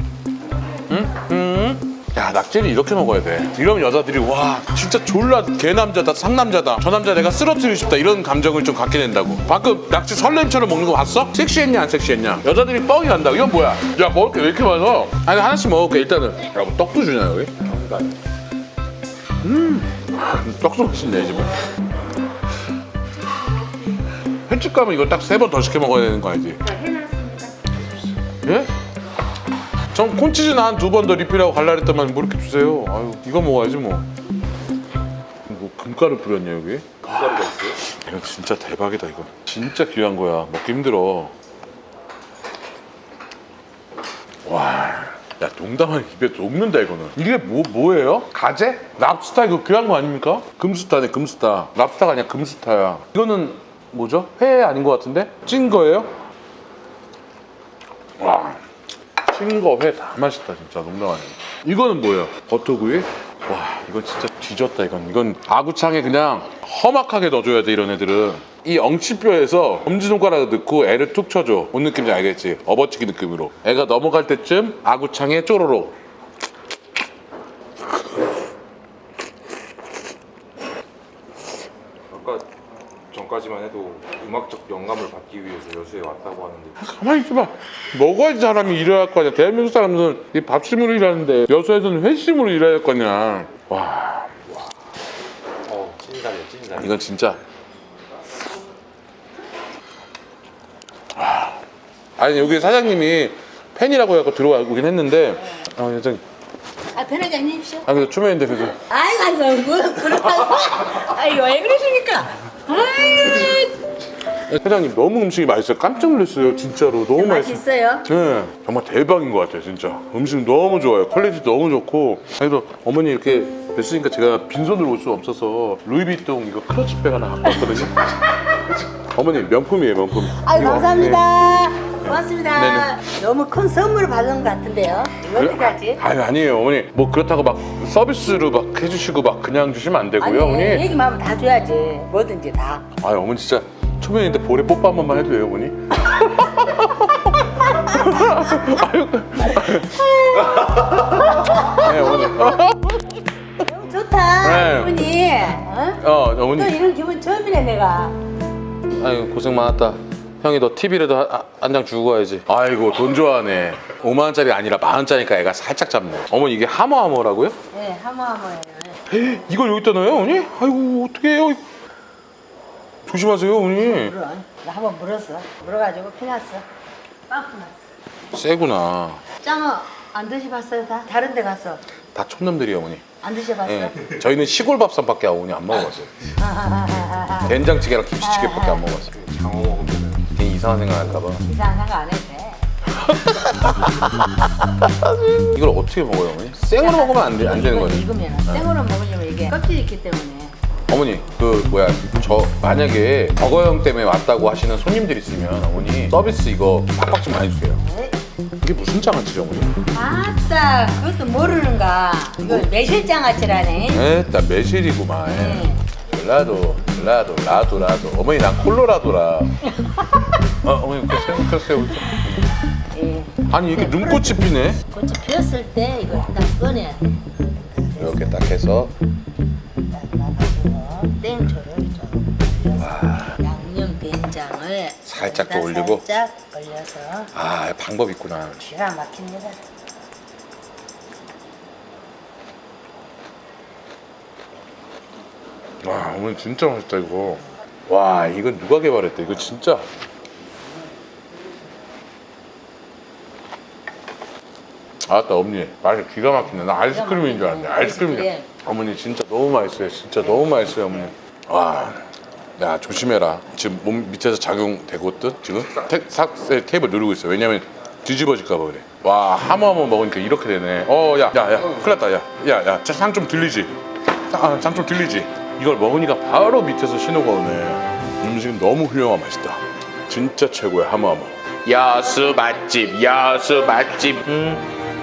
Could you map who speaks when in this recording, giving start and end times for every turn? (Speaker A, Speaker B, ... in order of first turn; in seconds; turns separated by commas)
Speaker A: 0.9-17.6, Speaker B: 17.7-18.1, Speaker A: 19.4-21.6, Speaker A: 24.5-26.6, Speaker C: 26.7-27.5, Speaker A: 28.4-28.7, Speaker A: 29.9-34.1, Speaker A: 35.5-41.3, Speaker B: 37.2-37.7, Speaker A: 44.4-56.1, Speaker A: 58.2-58.6, Speaker A: 59.2-75.9, Speaker B: 82.1-82.5, Speaker B: 83.1-86.8, Speaker A: 86.8-94.6, Speaker B: 95.6-97.0, Speaker A: 96.7-97.4, Speaker A: 101.2-101.6, Speaker A: 102.2-106.2, Speaker C: 106.9-107.8, Speaker A: 107.8-108.8, Speaker C: 108.7-113.8, Speaker A: 114.4-131.2, Speaker C: 117.1-118.1, Speaker C: 130.3-136.0, Speaker A: 132.0-132.9, Speaker A: 135.3-140.9, Speaker C: 140.2-142.8, Speaker A: 143.0-153.2, Speaker C: 149.5-152.3, Speaker C: 153.6-158.2, Speaker A: 154.4-155.1, Speaker A: 156.0-156.8, Speaker A: 158.9-167.6, Speaker C: 167.7-169.0, Speaker A: 169.1-171.6, Speaker A: 173.1-174.1, Speaker C: 173.8-176.7, Speaker C: 177.3-177.9, Speaker A: 178.3-179.2, Speaker C: 179.4-181.8, Speaker A: 182.1-186.3, Speaker C: 183.2-184.1, Speaker C: 186.4-187.6, Speaker A: 187.4-189.2, Speaker C: 188.2-188.9, Speaker B: 189.1-190.3, Speaker A: 190.3-191.5, Speaker C: 191.4-192.6, Speaker A: 192.9-198.7, Speaker C: 196.8-200.5, Speaker A: 200.9-207.8, Speaker C: 207.8-208.2, Speaker A: 208.6-209.7, Speaker C: 209.9-214.1, Speaker A: 213.9-219.6, Speaker C: 215.3-215.8, Speaker C: 219.7-220.2, Speaker A: 220.6-222.6, Speaker C: 222.9-228.5, Speaker A: 223.5-224.8, Speaker A: 227.9-228.9, Speaker C: 229.9-237.3, Speaker A: 232.8-233.4, Speaker A: 235.1-236.0, Speaker A: 237.3-238.7, Speaker C: 238.6-239.6, Speaker A: 245.8-249.8, Speaker A: 255.0-273.8, Speaker C: 256.7-258.5, Speaker A: 274.3-284.6